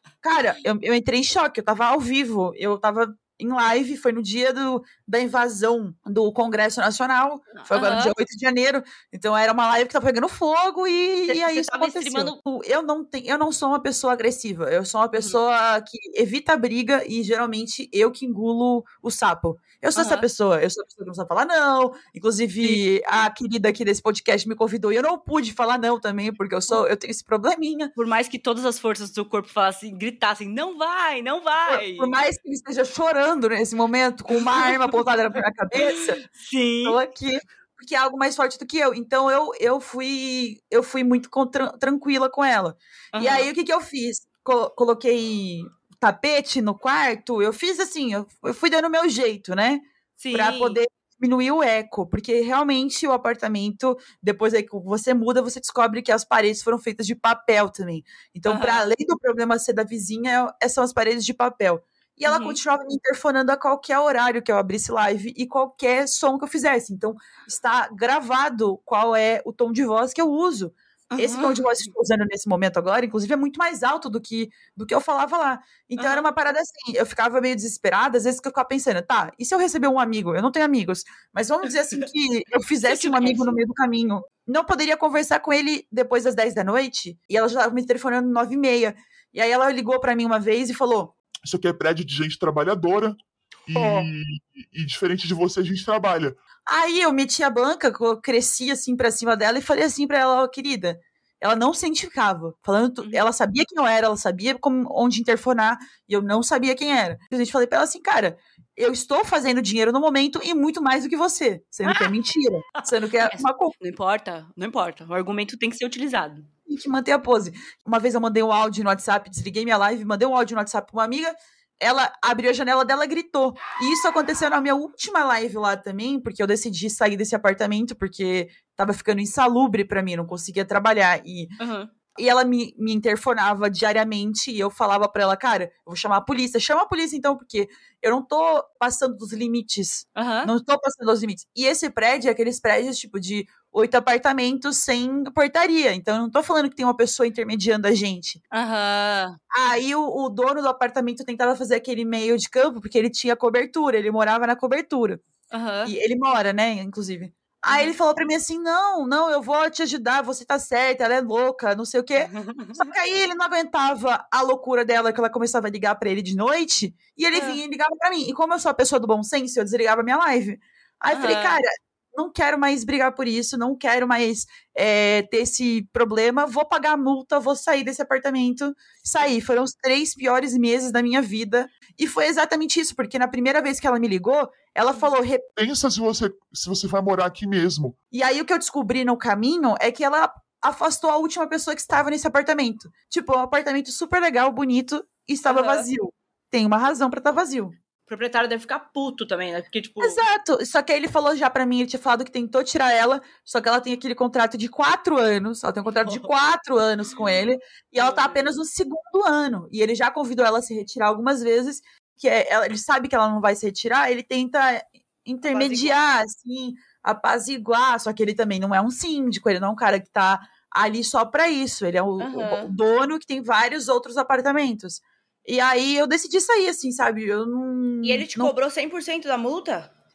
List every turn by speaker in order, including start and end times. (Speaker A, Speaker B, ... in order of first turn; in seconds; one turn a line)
Speaker A: 0.2-27.9
Speaker B: 7.5-8.1
Speaker B: 11.3-12.4
Speaker B: 19.9-20.2
Speaker B: 22.6-22.9
Speaker B: 27.9-32.1
Speaker A: 31.6-36.2
Speaker B: 34.3-34.9
Speaker B: 35.7-37.0
Speaker A: 36.8-91.1
Speaker B: 43.1-43.5
Speaker B: 50.2-50.8
Speaker B: 58.5-58.9
Speaker B: 62.2-62.6
Speaker B: 71.1-71.9
Speaker B: 76.0-76.2
Speaker B: 82.8-83.6
Speaker C: 91.5-96.4
Speaker A: 93.7-94.1
Speaker A: 96.7-113.7
Speaker B: 113.2-116.5
Speaker A: 116.7-131.5
Speaker B: 131.6-131.9
Speaker A: 132.2-148.4
Speaker B: 140.2-140.5
Speaker B: 148.5-149.4
Speaker A: 149.5-155.2
Speaker B: 155.5-155.9
Speaker A: 155.8-185.5
Speaker B: 157.7-157.9
Speaker B: 162.2-162.9
Speaker B: 167.3-167.6
Speaker B: 171.1-171.6
Speaker C: 185.6-187.9
Speaker A: 188.1-197.7
Speaker B: 195.4-195.9
Speaker B: 198.1-200.2
Speaker A: 200.0-228.5
Speaker B: 206.0-206.3
Speaker B: 208.0-208.6
Speaker B: 215.4-216.0
Speaker B: 222.2-222.7
Speaker B: 228.0-229.9